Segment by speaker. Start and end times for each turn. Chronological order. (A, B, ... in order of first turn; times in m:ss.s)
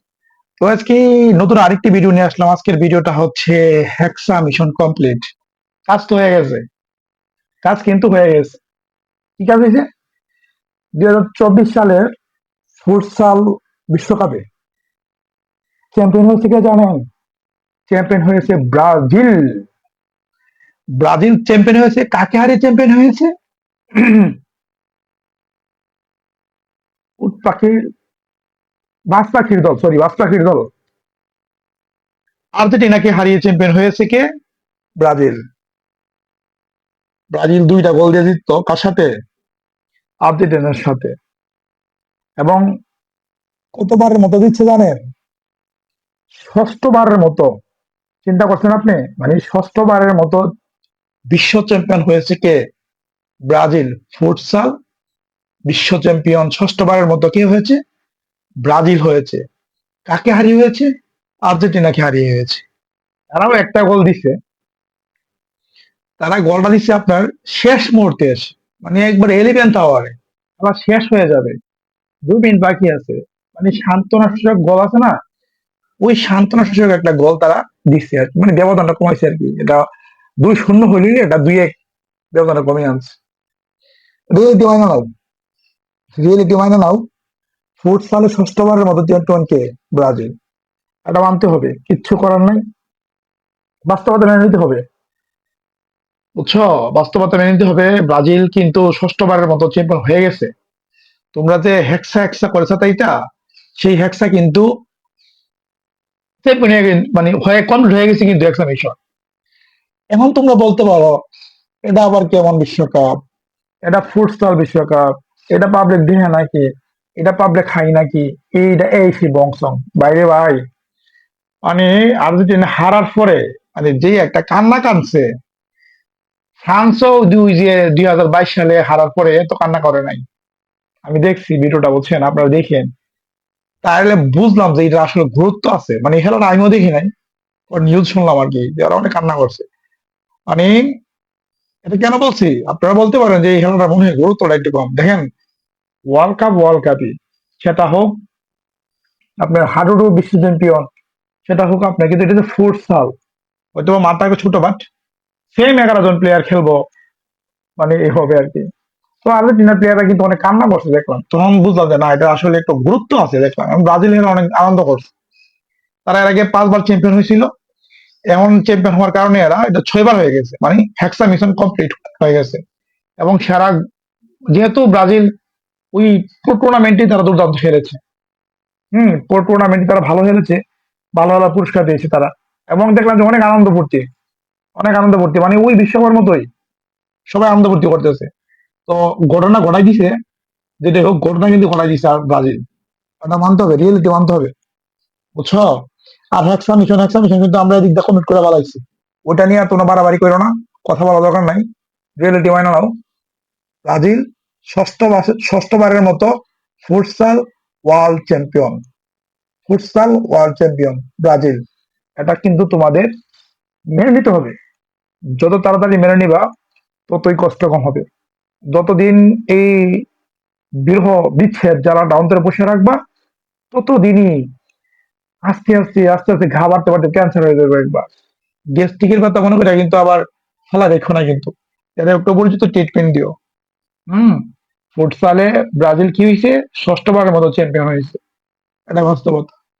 0:00.6-0:05.2 A
0:05.9-0:06.6 A
0:07.6-0:08.6 A
0:09.4-0:09.9 A
0:11.0-0:12.1 A
0:12.8-0:14.4 A
0:15.9-0:17.0 A
0:17.9-0:19.5 A
0:21.0-0:23.3 A
0:24.0-0:24.4 A
0:27.2-0:27.7 A
0:29.1-0:30.7 A
0:32.6-0:34.2 A
0:35.0-0:35.4 A
0:37.3-0:39.1 A
0:40.2-0:41.1 A
0:43.8-0:45.0 A
0:46.4-0:47.5 A
0:48.2-0:50.4 A
0:51.3-0:52.6 A
0:53.5-0:54.7 A
0:55.7-0:57.8 A
0:58.6-0:59.4 A
1:00.1-1:00.9 A
1:01.5-1:02.6 A
1:03.3-1:04.3 A
1:06.2-1:11.6 A
1:12.3-1:15.2 A
1:16.0-1:19.8 A
1:20.4-1:21.7 A
1:22.3-1:23.2 A
1:24.3-1:25.1 A
1:26.2-1:27.0 A
1:27.8-1:30.3 A
1:31.1-1:32.6 A
1:33.9-1:34.8 A
1:36.4-1:40.5 A
1:41.4-1:43.1 A
1:43.8-1:44.7 A
1:46.4-1:49.0 A
1:50.1-1:51.2 A
1:51.8-1:53.1 A
1:53.8-1:56.7 A
1:57.2-2:00.6 A
2:01.7-2:05.2 A
2:06.6-2:10.2 A
2:11.0-2:12.9 A
2:13.8-2:17.1 A
2:17.7-2:19.6 A
2:20.5-2:20.8 A
2:21.9-2:25.2 A
2:26.1-2:28.1 A
2:29.4-2:30.9 A
2:31.5-2:33.1 A
2:33.8-2:34.8 A
2:35.5-2:36.8 A
2:37.8-2:38.6 A
2:39.2-2:45.1 A
2:46.1-2:47.5 A
2:48.3-2:52.6 A
2:53.2-2:53.7 A
2:54.5-2:55.2 A
2:55.9-2:58.0 A
2:58.9-3:00.6 A
3:01.2-3:04.0 A
3:04.8-3:06.5 A
3:07.3-3:08.3 A
3:08.9-3:10.1 A
3:10.8-3:12.6 A
3:13.2-3:14.5 A
3:15.4-3:15.6 A
3:16.3-3:21.6 A
3:22.2-3:22.9 A
3:23.8-3:26.3 A
3:26.8-3:28.8 A
3:29.7-3:31.6 A
3:32.2-3:33.1 A
3:33.9-3:34.5 A
3:35.4-3:36.4 A
3:37.1-3:38.0 A
3:38.7-3:40.0 A
3:40.8-3:43.0 A
3:43.7-3:44.3 A
3:45.5-3:48.1 A
3:48.8-3:53.3 A
3:54.1-3:54.4 A
3:55.0-3:58.2 A
3:58.9-3:59.5 A